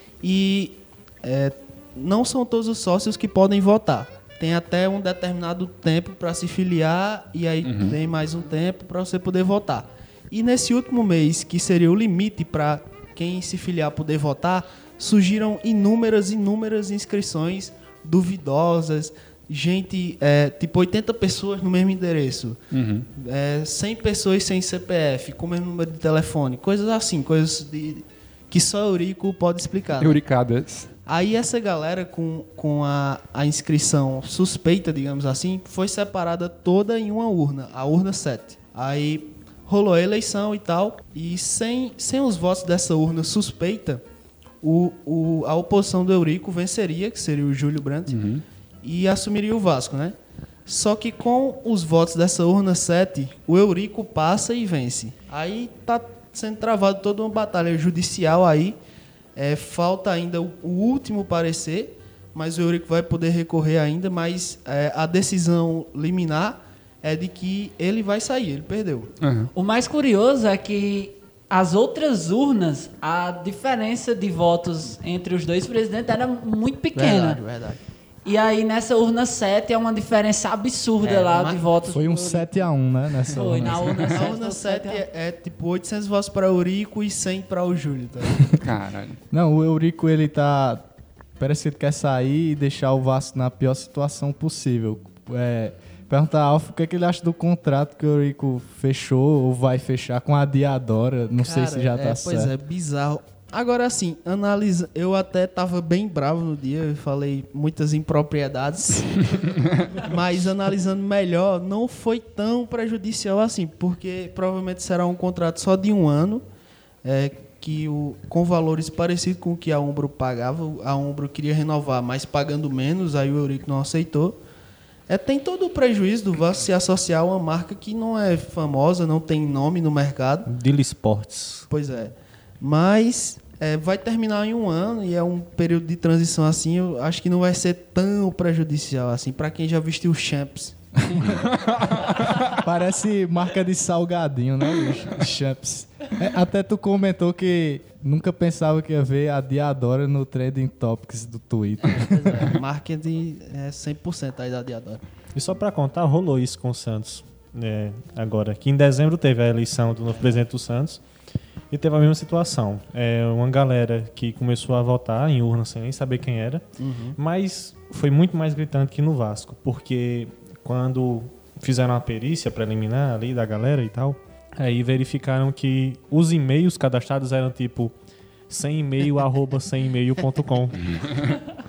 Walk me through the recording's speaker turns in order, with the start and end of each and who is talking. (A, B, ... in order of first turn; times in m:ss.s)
0:00.2-0:22.6 A
0:07.6-0:08.0 B
0:22.7-0:23.1 B
0:23.2-0:30.2 A
0:30.0-0:30.9 B
0:31.0-0:44.0 A
0:44.6-0:48.2 A
0:48.1-0:48.4 B
0:48.8-0:50.1 A
0:50.7-0:58.8 A
0:59.4-1:09.1 A
1:09.2-1:09.5 B
1:09.5-1:17.4 C
1:17.0-1:17.8 A
1:18.2-1:22.7 C
1:21.0-1:21.6 A
1:21.9-1:24.1 D
1:23.3-1:25.0 C
1:23.7-1:28.4 A
1:28.5-1:29.2 B
1:29.3-1:30.8 D
1:31.4-1:42.5 D
1:41.4-1:56.4 A
1:49.5-1:50.0 B
1:57.0-2:04.4 A
2:05.1-2:10.5 A
2:10.5-2:11.7 E
2:11.7-2:20.8 A
2:21.1-2:22.5 B
2:22.5-2:32.5 D
2:31.8-2:35.0 A
2:35.3-2:41.0 E
2:41.7-2:46.6 E
2:46.8-2:47.2 A
2:47.2-2:57.9 E
2:58.5-3:01.2 E